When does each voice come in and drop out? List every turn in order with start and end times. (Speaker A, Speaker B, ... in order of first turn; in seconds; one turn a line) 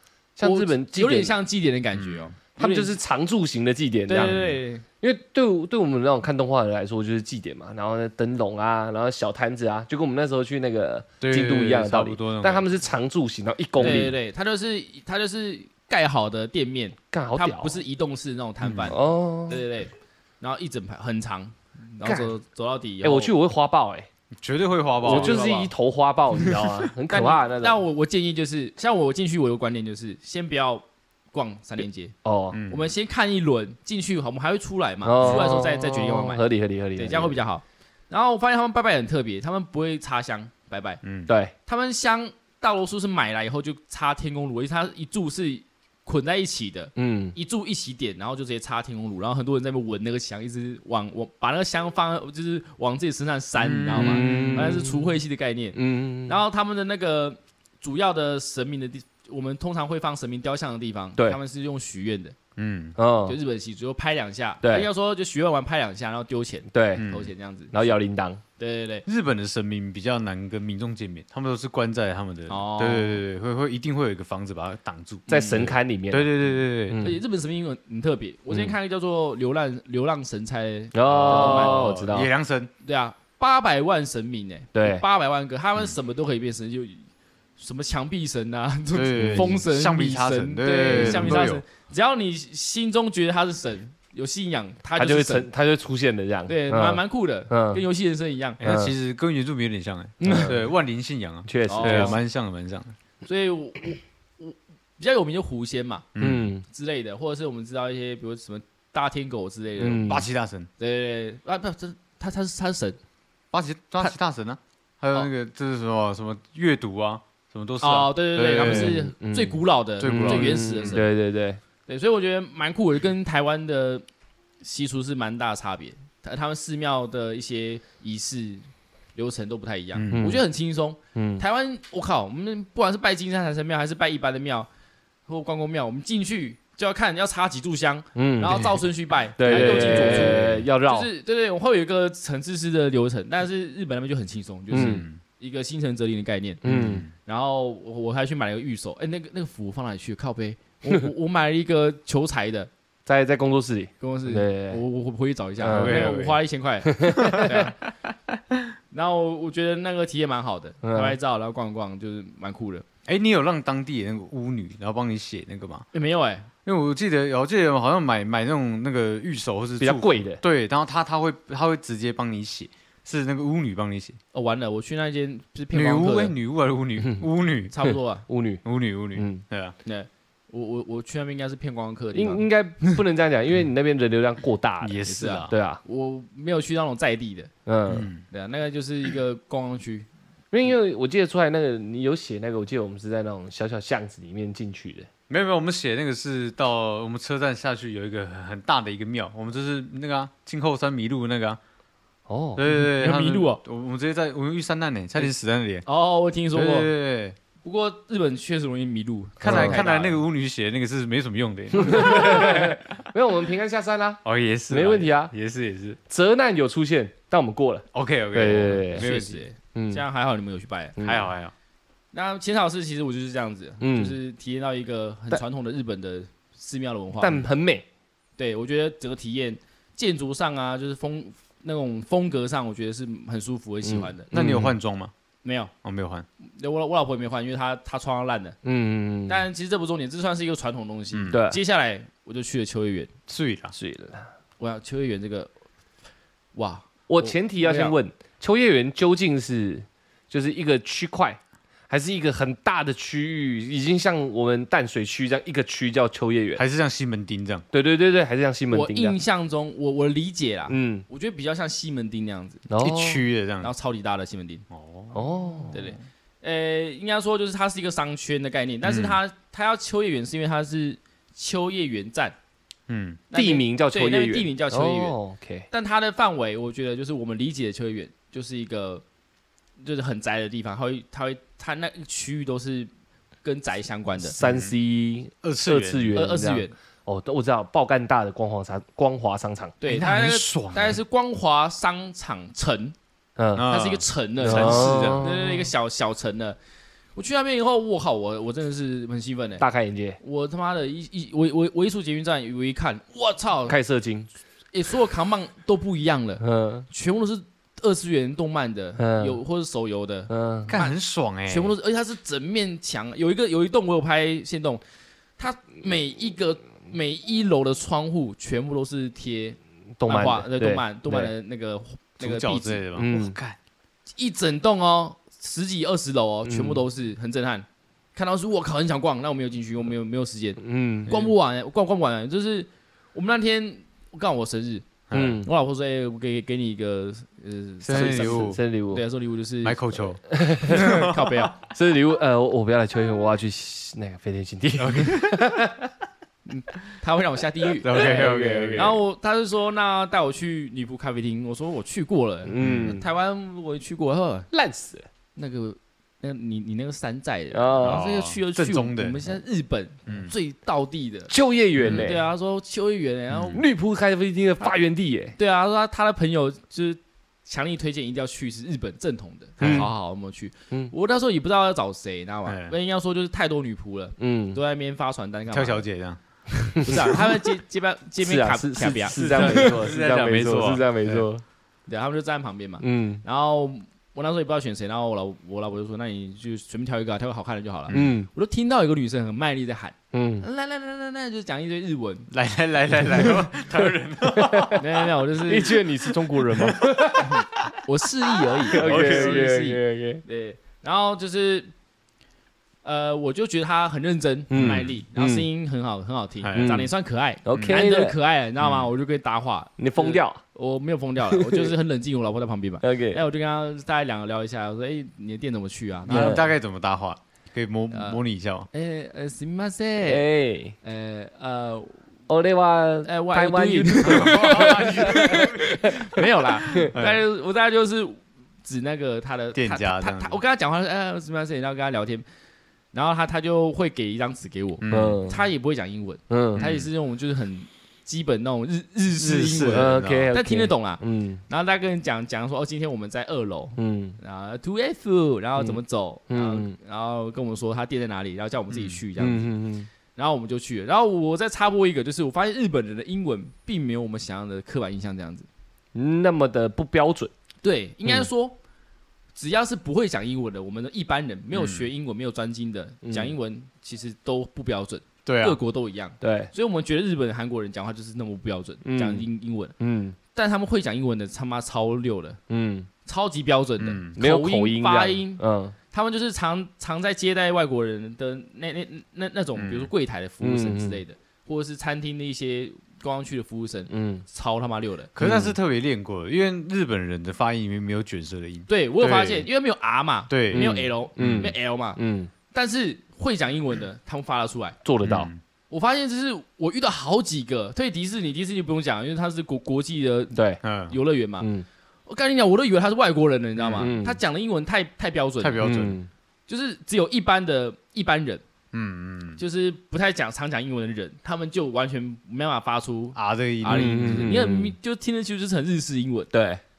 Speaker A: 0.4-1.3
Speaker B: 0.4-3.0
Speaker C: 1.9-2.3
Speaker A: 2.6-4.4
Speaker B: 4.1-4.8
Speaker C: 4.1-4.6
Speaker A: 5.0-14.1
Speaker C: 11.2-12.7
Speaker B: 13.8-23.3
Speaker C: 13.8-14.1
Speaker A: 17.1-17.8
Speaker C: 18.6-18.9
Speaker A: 18.9-19.6
Speaker A: 23.0-24.1
Speaker C: 24.4-25.4
Speaker B: 25.0-25.7
Speaker A: 25.0-27.8
Speaker B: 27.1-32.1
Speaker A: 32.2-32.6
Speaker C: 32.5-32.9
Speaker B: 32.7-36.4
Speaker A: 35.0-37.4
Speaker B: 37.0-41.0
Speaker C: 41.0-41.3
Speaker A: 41.3-41.5
Speaker B: 41.6-62.4
Speaker A: 47.0-47.4
Speaker C: 53.6-54.7
Speaker A: 53.9-55.1
Speaker A: 55.7-56.4
Speaker C: 62.6-63.0
Speaker A: 63.0-63.4
Speaker B: 63.2-68.0
Speaker A: 64.6-64.9
Speaker A: 66.7-67.1
Speaker C: 67.0-67.3
Speaker A: 67.7-68.4
Speaker B: 68.6-69.0
Speaker C: 69.0-77.0
Speaker B: 72.5-73.2
Speaker B: 75.3-75.7
Speaker A: 75.3-76.3
Speaker A: 76.9-77.2
Speaker B: 77.0-82.0
Speaker A: 80.9-82.3
Speaker C: 81.2-82.7
Speaker B: 82.8-87.1
Speaker A: 84.7-85.0
Speaker B: 87.6-95.5
Speaker C: 88.9-91.6
Speaker A: 89.2-89.6
Speaker A: 90.9-91.5
Speaker A: 95.0-97.8
Speaker B: 96.5-98.6
Speaker C: 98.6-102.9
Speaker A: 98.6-98.9
Speaker B: 100.2-100.6
Speaker A: 100.2-100.6
Speaker A: 101.5-102.2
Speaker B: 101.7-102.2
Speaker B: 103.2-106.0
Speaker C: 106.1-106.5
Speaker A: 106.2-106.6
Speaker B: 106.6-110.2
Speaker A: 109.8-110.3
Speaker C: 110.0-110.7
Speaker B: 110.8-113.0
Speaker C: 113.5-119.0
Speaker B: 117.8-121.1
Speaker A: 118.6-121.6
Speaker C: 120.0-121.0
Speaker B: 121.9-124.0
Speaker B: 124.6-134.7
Speaker C: 129.9-130.3
Speaker A: 130.1-130.4
Speaker A: 131.1-131.4
Speaker B: 135.3-146.6
Speaker A: 138.1-138.8
Speaker A: 139.4-141.1
Speaker C: 139.5-140.4
Speaker C: 144.7-145.2
Speaker A: 144.7-145.0
Speaker A: 146.6-147.1
Speaker C: 146.6-147.1
Speaker B: 147.2-152.7
Speaker A: 153.1-154.8
Speaker B: 154.0-157.8
Speaker A: 155.6-156.2
Speaker C: 155.7-156.4
Speaker A: 156.9-157.7
Speaker C: 157.1-157.6
Speaker B: 158.9-162.9
Speaker A: 160.8-161.2
Speaker C: 163.1-165.9
Speaker B: 165.9-166.5
Speaker C: 166.6-174.2
Speaker A: 169.8-170.4
Speaker B: 174.3-176.3
Speaker C: 175.7-177.7
Speaker A: 177.0-177.2
Speaker B: 177.7-178.2
Speaker A: 178.3-178.6
Speaker C: 178.6-179.8
Speaker A: 179.1-179.4
Speaker B: 179.8-183.0
Speaker A: 182.1-185.8
Speaker C: 184.8-185.5
Speaker B: 185.1-187.5
Speaker A: 187.7-188.1
Speaker C: 187.9-188.2
Speaker B: 188.3-190.1
Speaker A: 190.5-195.1
Speaker C: 195.3-201.6
Speaker A: 202.3-202.6
Speaker C: 202.6-205.8
Speaker B: 202.7-203.6
Speaker B: 205.9-206.9
Speaker C: 206.5-207.4
Speaker B: 207.6-210.2
Speaker A: 209.4-209.8
Speaker C: 209.4-212.8
Speaker A: 211.7-215.3
Speaker C: 214.2-216.0
Speaker A: 216.1-219.2
Speaker C: 217.9-219.4
Speaker B: 218.9-221.0
Speaker A: 219.7-220.0
Speaker A: 221.0-221.3
Speaker C: 221.0-221.5
Speaker B: 222.1-227.5
Speaker A: 223.8-224.2
Speaker A: 227.2-227.8
Speaker B: 228.4-234.3
Speaker A: 233.8-234.7
Speaker C: 234.3-235.1
Speaker B: 235.4-235.7
Speaker C: 235.8-236.3
Speaker B: 236.4-238.6
Speaker A: 238.6-239.4
Speaker B: 239.3-243.1
Speaker C: 241.1-241.4
Speaker A: 241.3-241.6
Speaker C: 243.3-243.7
Speaker A: 243.7-244.3
Speaker B: 244.6-245.5
Speaker B: 246.6-248.0
Speaker A: 247.1-256.6
Speaker C: 256.6-257.6
Speaker A: 257.7-259.1
Speaker B: 258.7-262.6
Speaker A: 260.7-261.1
Speaker A: 262.7-263.2
Speaker C: 262.8-263.7
Speaker B: 263.6-264.6
Speaker C: 264.7-265.8
Speaker A: 265.1-265.8
Speaker B: 265.7-272.4
Speaker C: 268.8-269.2
Speaker C: 272.9-273.2
Speaker B: 273.3-275.2
Speaker A: 273.3-275.6
Speaker B: 275.7-279.0
Speaker B: 279.8-282.9
Speaker B: 283.4-284.4
Speaker A: 284.3-289.8
Speaker C: 284.4-284.7
Speaker C: 285.4-286.2
Speaker B: 286.1-286.7
Speaker B: 289.8-292.9
Speaker C: 289.9-291.0
Speaker A: 293.4-293.6
Speaker C: 293.6-295.3
Speaker B: 293.7-296.6
Speaker A: 294.4-295.7
Speaker B: 297.1-299.6
Speaker A: 299.6-300.2
Speaker B: 300.2-303.8
Speaker A: 303.7-304.3
Speaker B: 304.7-314.8
Speaker A: 306.4-306.9
Speaker A: 309.0-309.4
Speaker A: 310.3-310.7
Speaker C: 310.7-311.7
Speaker B: 315.4-322.8
Speaker A: 320.0-321.3
Speaker C: 322.2-323.6
Speaker A: 322.9-323.4
Speaker B: 324.2-340.1
Speaker A: 326.4-326.8
Speaker A: 330.6-331.1
Speaker C: 335.1-335.4
Speaker A: 335.1-335.5
Speaker C: 337.8-338.6
Speaker A: 337.9-339.0
Speaker C: 339.6-341.3
Speaker A: 340.3-341.0
Speaker B: 340.6-341.6
Speaker A: 341.7-345.9
Speaker C: 344.8-345.7
Speaker B: 346.4-354.5
Speaker C: 347.8-349.0
Speaker A: 347.9-349.0
Speaker A: 352.4-353.0
Speaker C: 352.6-353.0
Speaker A: 354.5-355.1
Speaker B: 355.4-363.6
Speaker A: 357.5-358.0
Speaker C: 357.8-359.2
Speaker C: 360.1-360.3
Speaker A: 361.3-362.2
Speaker C: 361.8-362.1
Speaker C: 363.4-363.6
Speaker A: 363.5-365.4
Speaker B: 365.4-375.8
Speaker C: 369.6-369.9
Speaker A: 369.6-369.9
Speaker C: 372.4-372.7
Speaker A: 374.2-374.6
Speaker C: 375.5-377.2
Speaker B: 376.8-379.8
Speaker A: 378.2-381.4
Speaker C: 379.1-381.3
Speaker B: 381.9-392.3
Speaker A: 382.8-383.2
Speaker A: 387.9-388.3
Speaker A: 390.1-390.4
Speaker C: 392.3-394.9
Speaker A: 394.3-394.8
Speaker B: 394.8-395.8
Speaker A: 395.4-397.4
Speaker C: 396.1-396.9
Speaker B: 397.2-401.7
Speaker C: 398.6-399.4
Speaker A: 398.7-400.2
Speaker B: 402.8-416.4
Speaker A: 404.5-405.4
Speaker C: 404.5-404.9
Speaker C: 406.4-406.9
Speaker A: 406.6-406.9
Speaker A: 407.4-408.1
Speaker C: 407.5-407.8
Speaker C: 408.6-408.9
Speaker A: 409.8-410.4
Speaker A: 411.3-411.7
Speaker A: 412.8-413.2
Speaker A: 416.1-416.5
Speaker C: 416.1-418.7
Speaker B: 417.9-418.2
Speaker B: 418.7-420.3
Speaker A: 420.0-420.8
Speaker B: 420.8-421.9
Speaker A: 422.3-426.0
Speaker B: 423.0-432.2
Speaker C: 424.0-426.1
Speaker C: 426.7-427.2
Speaker C: 429.6-430.4
Speaker B: 432.9-449.5
Speaker C: 434.8-435.2
Speaker A: 434.9-435.4
Speaker A: 436.3-436.6
Speaker C: 436.6-436.9
Speaker C: 439.2-440.3
Speaker A: 439.7-441.4
Speaker A: 443.8-444.2
Speaker A: 445.6-446.8
Speaker C: 448.7-449.0
Speaker A: 449.2-449.9
Speaker B: 450.1-455.5
Speaker A: 455.9-457.3
Speaker B: 457.6-458.6
Speaker B: 459.4-469.7
Speaker C: 461.5-461.9
Speaker A: 463.0-463.3
Speaker C: 465.3-465.6
Speaker A: 466.2-466.5
Speaker A: 468.8-469.3
Speaker A: 469.8-470.2
Speaker B: 470.4-472.4
Speaker A: 472.5-472.9
Speaker B: 473.1-485.1
Speaker C: 473.8-474.1
Speaker A: 474.2-475.8
Speaker C: 479.6-479.9
Speaker A: 480.4-481.0
Speaker A: 483.9-484.2
Speaker C: 485.1-489.5
Speaker A: 485.2-485.6
Speaker B: 488.7-492.0
Speaker C: 490.3-491.5
Speaker A: 490.5-492.3
Speaker B: 492.5-494.8
Speaker A: 494.9-495.3
Speaker C: 495.0-495.4
Speaker B: 495.7-500.4
Speaker A: 500.4-500.6
Speaker C: 500.6-500.9
Speaker B: 500.9-501.5
Speaker A: 501.4-501.6
Speaker B: 502.1-505.7
Speaker C: 503.6-503.9
Speaker A: 503.8-504.2
Speaker C: 505.4-505.9
Speaker A: 505.6-506.1
Speaker B: 506.5-508.4
Speaker C: 508.7-509.4
Speaker B: 509.4-516.3
Speaker C: 513.1-514.4
Speaker A: 513.6-514.7
Speaker A: 516.3-516.6